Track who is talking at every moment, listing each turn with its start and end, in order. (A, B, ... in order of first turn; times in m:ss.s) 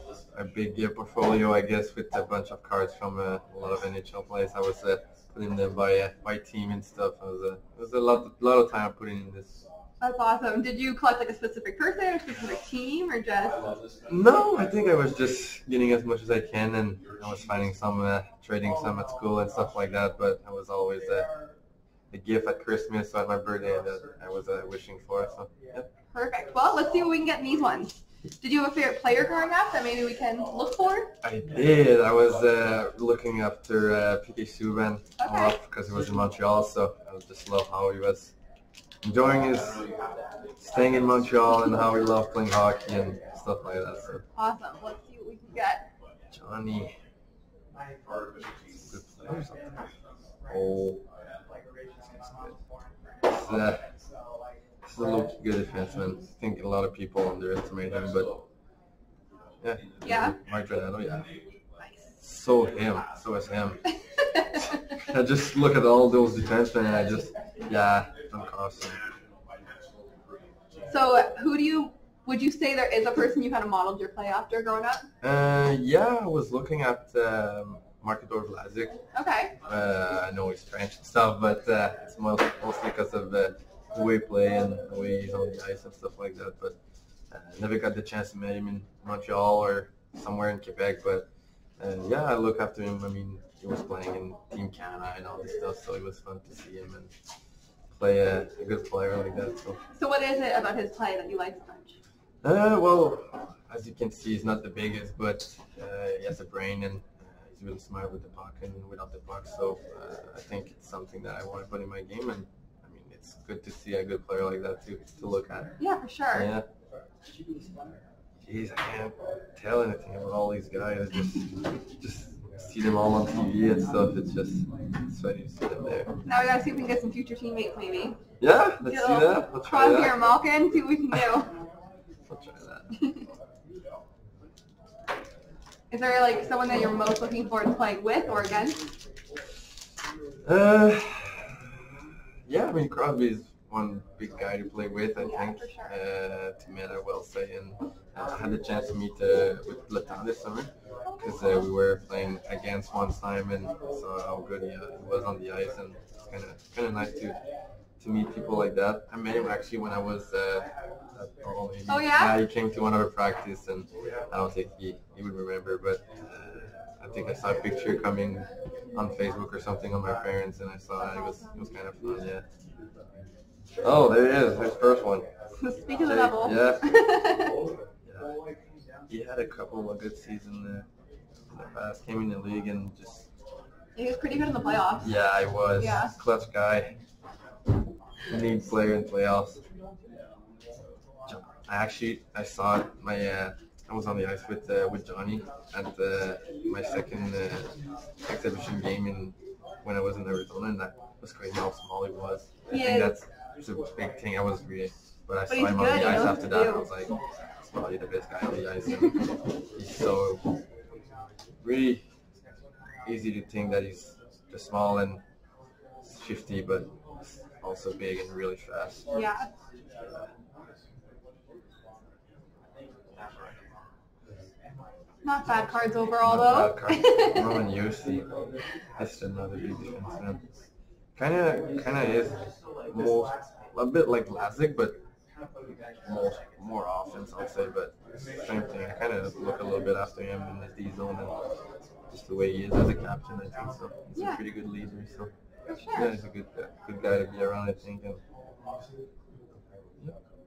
0:00.3-0:09.6 A
0:10.0-0:13.7 B
0:14.1-0:21.3 A
0:22.1-0:25.9 A
0:26.1-0:31.1 B
0:31.2-0:38.3 A
0:35.2-0:35.6 B
0:39.0-0:39.8 A
0:40.6-0:44.2 A
0:44.4-0:45.9 B
0:46.3-0:47.0 A
0:48.7-0:49.8 A
0:50.5-0:51.0 A
0:52.2-0:52.6 A
0:53.2-0:53.9 A
0:54.9-0:58.4 A
0:59.6-1:01.3 A
1:00.0-1:00.4 B
1:01.8-1:02.1 B
1:02.2-1:03.8 A
1:04.2-1:05.0 B
1:04.8-1:09.0 A
1:10.9-1:15.0 B
1:15.2-1:19.0 A
1:19.1-1:19.5 B
1:19.6-1:26.8 A
1:27.3-1:31.3 A
1:31.8-1:37.1 A
1:37.9-1:39.8 A
1:39.9-1:42.0 B
1:42.4-1:55.7 A
1:55.8-1:56.5 B
1:56.3-1:56.6 A
1:58.4-2:06.1 A
2:06.2-2:08.2 B
2:08.4-2:10.2 A
2:08.8-2:11.5 B
2:12.3-2:12.9 A
2:15.9-2:18.8 B
2:20.4-2:37.4 A
2:25.2-2:25.9 B
2:31.0-2:31.4 B
2:38.0-2:52.4 A
2:41.9-2:42.4 B
2:51.0-2:51.6 B
2:53.8-2:55.3 A
2:55.6-2:57.6 B
2:56.0-2:56.9 A
2:58.0-2:58.4 A
2:59.1-3:00.9 A
3:01.5-3:03.3 A
3:04.0-3:05.1 B
3:05.0-3:07.0 A
3:05.8-3:06.1 B
3:08.3-3:09.6 A
3:11.2-3:29.2 A
3:22.7-3:23.2 B
3:25.5-3:26.9 B
3:29.7-3:30.4 A
3:31.6-3:32.0 A
3:33.0-3:35.2 A
3:36.0-3:39.0 A
3:39.1-3:39.5 B
3:43.2-3:43.4 A
3:45.2-3:47.5 B
3:46.2-3:48.3 A
3:49.0-3:50.4 A
3:51.2-3:55.0 A
3:56.0-4:01.4 A
4:02.1-4:05.3 A
4:04.1-4:04.4 B
4:05.7-4:06.1 B
4:06.0-4:08.2 A